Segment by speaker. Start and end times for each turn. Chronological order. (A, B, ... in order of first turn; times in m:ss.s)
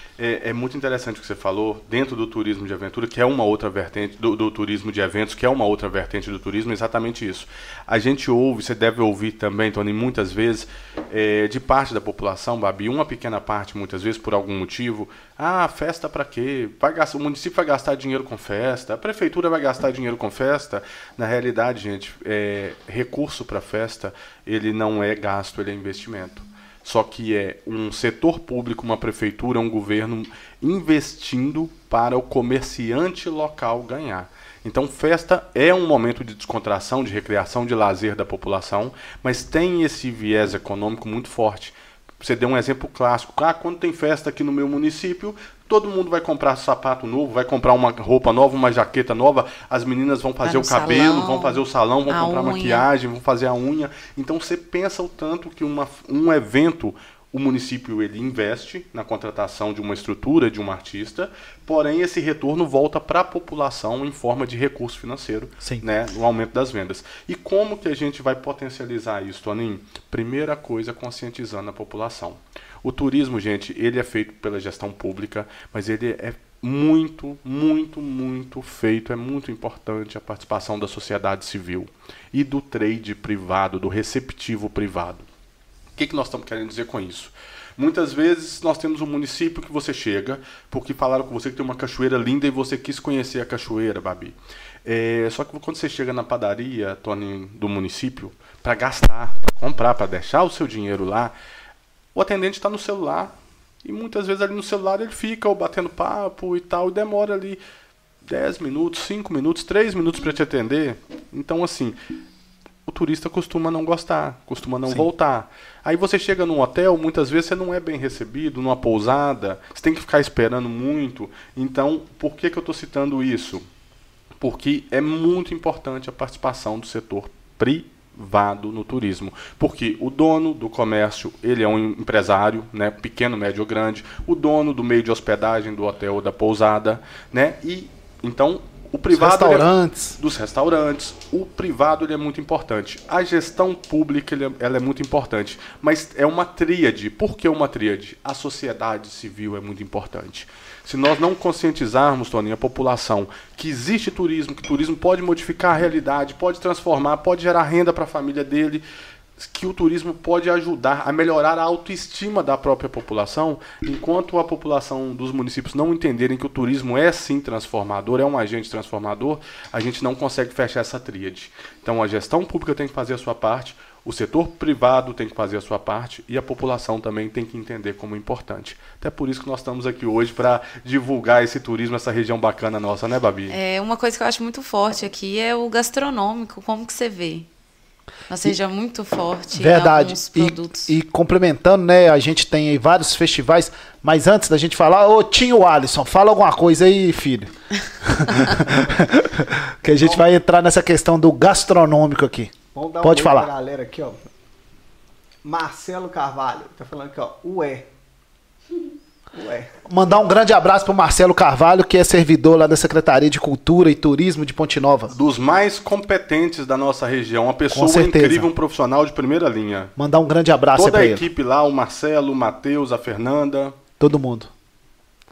0:00.2-1:25.2 A
0:50.4-0:52.8 B
1:26.0-1:41.3 A
1:42.2-1:47.6 A
1:48.3-1:52.0 A
1:52.9-2:03.6 A
2:04.4-2:38.8 A
2:19.1-2:20.2 C
2:39.4-3:03.6 A
3:03.5-3:07.5 B
3:08.3-3:10.9 B
3:09.5-3:17.5 C
3:18.0-3:23.5 C
3:19.9-3:20.2 D
3:22.8-3:24.2 D
3:25.4-3:27.9 D
3:29.3-3:29.7 D
3:29.9-3:35.2 C
3:35.1-3:39.9 A
3:37.7-3:38.5 C
3:40.0-3:41.2 C
3:40.7-3:43.8 A
3:44.0-3:44.5 C